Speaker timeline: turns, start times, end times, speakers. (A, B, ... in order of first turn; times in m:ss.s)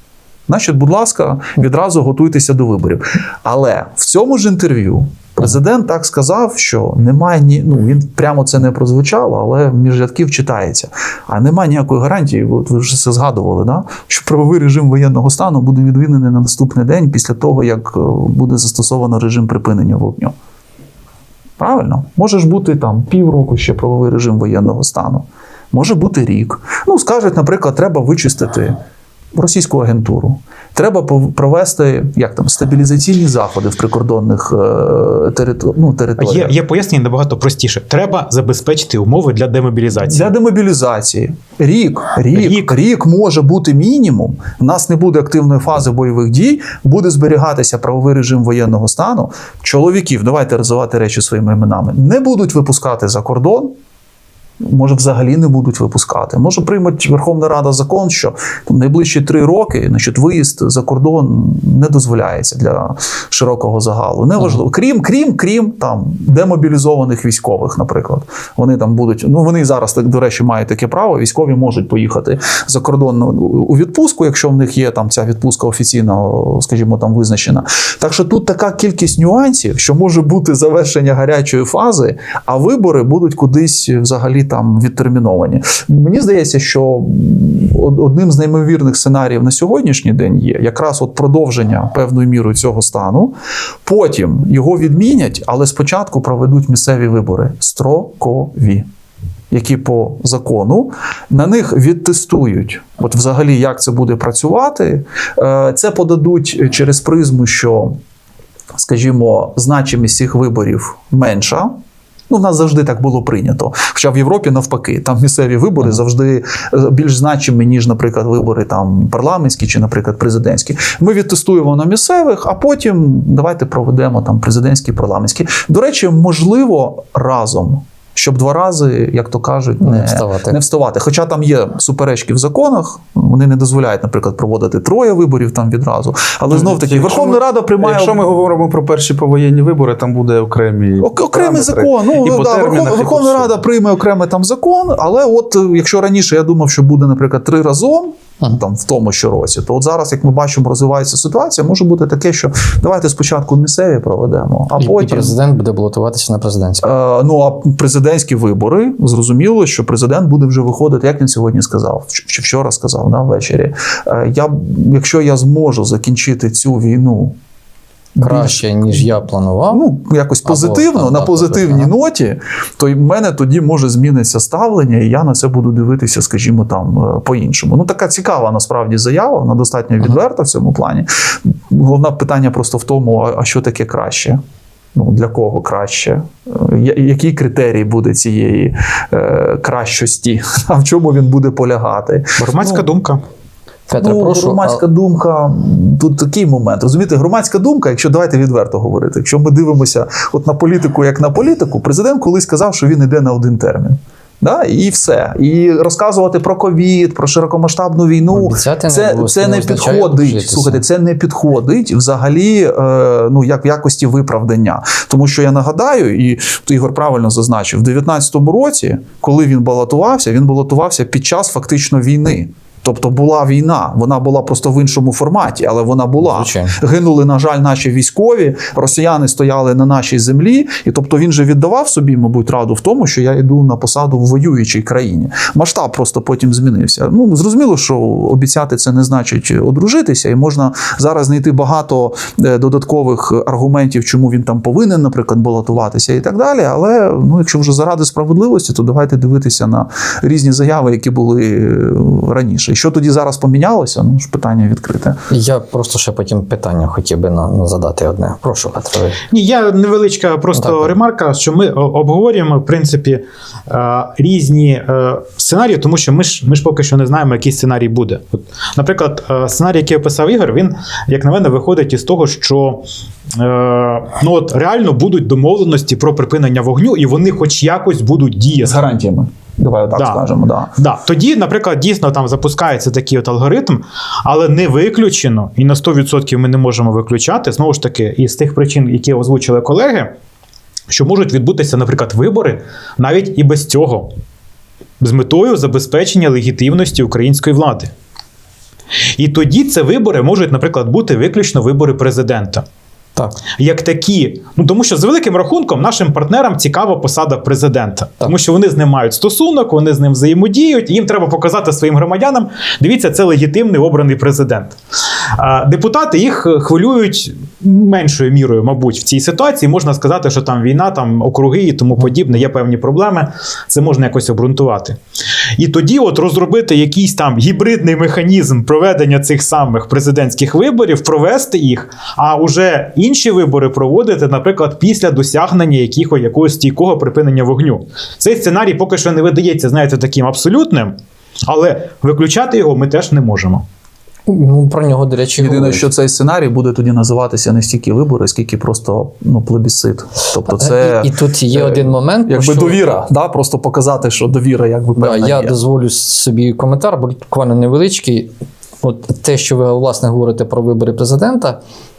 0:00.5-0:20.3 A
0:21.6-0:28.8 A
0:29.3-0:36.5 A
0:36.2-0:40.3 B
0:40.0-0:53.7 A
0:42.3-0:42.7 B
0:54.6-1:38.9 A
1:39.5-1:48.0 A
1:48.8-1:51.7 A
1:52.3-2:18.2 A
2:09.8-2:10.6 C
2:16.5-2:23.5 D
2:21.0-2:35.4 A
2:34.8-2:36.9 C
2:36.8-2:47.3 A
2:48.2-2:49.1 A
2:48.2-2:49.8 C
2:49.7-3:04.4 A
2:50.4-2:51.9 C
3:04.9-3:12.8 A
3:12.4-3:13.2 B
3:13.9-3:14.8 C
3:14.0-4:15.2 A
3:28.3-3:30.8 C
3:46.2-3:46.8 C
4:15.3-4:19.2 C
4:19.3-4:38.8 B
4:20.5-4:20.9 C
4:38.6-4:40.7 A
4:40.0-4:40.2 B
4:40.8-4:50.1 B
4:50.9-4:54.1 B
4:55.0-4:57.9 B
4:59.2-5:02.6 B
5:03.6-5:14.7 B
5:15.4-5:25.0 B
5:25.6-5:41.0 B
5:41.5-5:43.6 B
5:44.3-5:45.9 C
5:45.4-5:55.6 A
5:50.4-5:52.8 C
5:55.0-5:58.3 C
5:58.8-6:01.6 C